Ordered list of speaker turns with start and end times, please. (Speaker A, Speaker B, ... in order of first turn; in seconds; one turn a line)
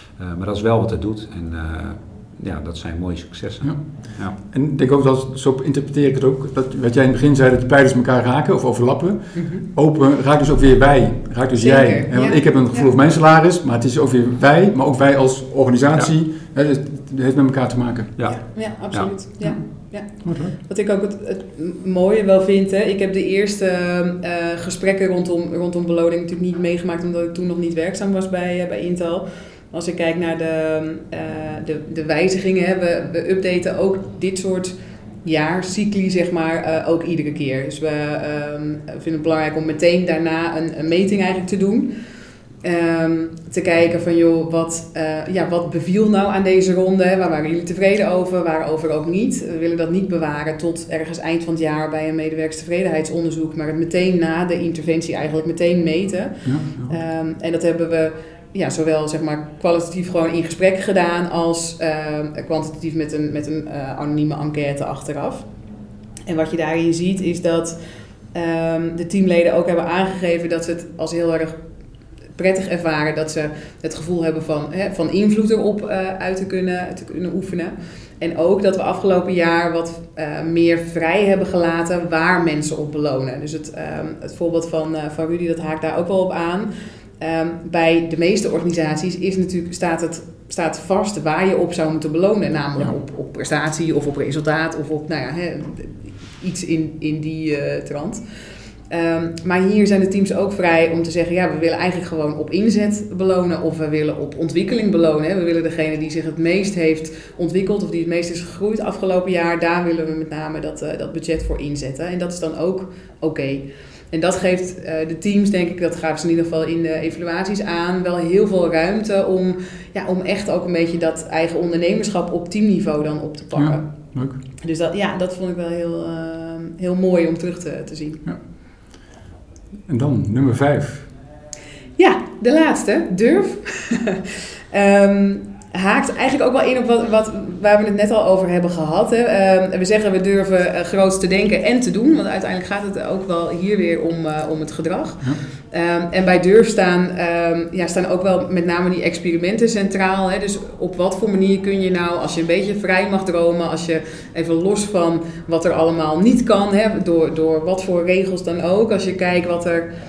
Speaker A: 0.2-4.3
Speaker B: 3.6-18.1
Speaker C: 9.3-9.6
Speaker C: 11.5-12.9
Speaker C: 18.2-41.9
Speaker B: 20.2-20.5
Speaker C: 42.6-65.5
Speaker B: 56.4-56.9
Speaker C: 66.3-67.8
Speaker C: 68.3-71.6
Speaker C: 72.3-98.2
Speaker C: 98.9-123.9
Speaker B: 123.5-124.4
Speaker C: 124.6-128.2
Speaker B: 129.9-131.1
Speaker C: 132.0-159.9